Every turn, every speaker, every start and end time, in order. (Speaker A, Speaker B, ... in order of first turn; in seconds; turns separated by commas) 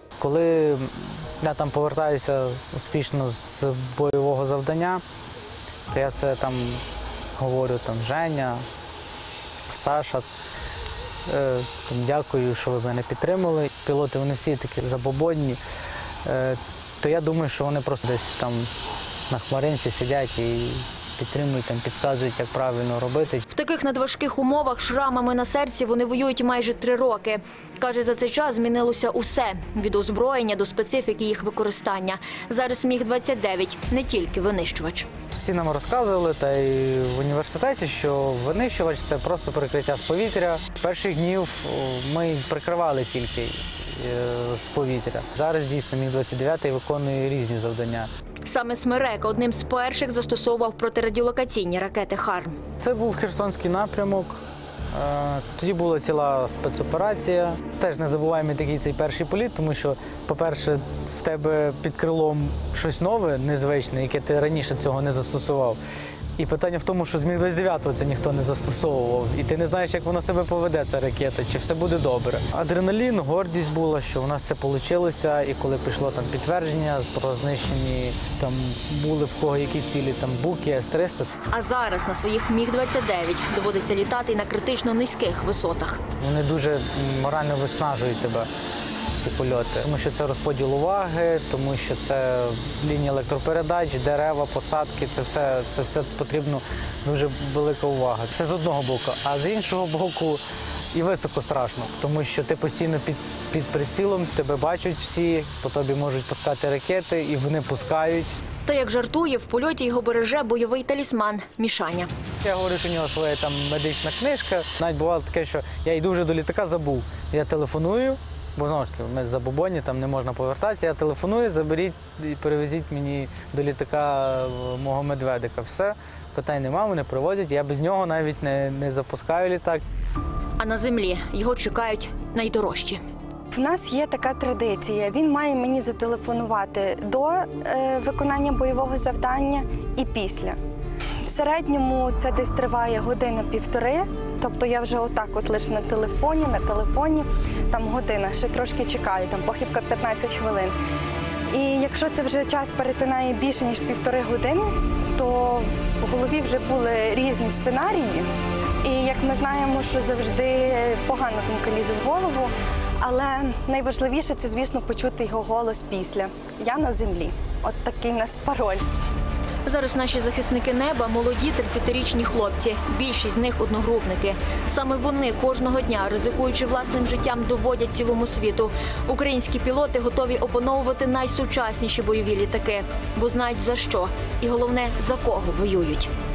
Speaker A: 0.2-5.0, Speaker A: 5.9-6.8, Speaker A: 7.4-8.6, Speaker A: 9.7-10.3, Speaker A: 11.3-15.6, Speaker A: 16.2-18.7, Speaker A: 19.3-23.4, Speaker B: 23.5-35.1, Speaker A: 35.3-48.1, Speaker B: 48.5-52.6, Speaker A: 52.8-54.4, Speaker A: 54.9-65.8, Speaker A: 66.4-81.3, Speaker B: 81.5-86.0, Speaker A: 86.2-88.5, Speaker A: 89.2-100.4, Speaker A: 100.9-108.3, Speaker B: 108.7-112.1, Speaker A: 112.4-129.8, Speaker B: 130.6-133.0, Speaker C: 133.5-140.6, Speaker C: 141.2-150.7, Speaker C: 151.5-158.3, Speaker C: 158.8-168.8, Speaker B: 169.7-186.1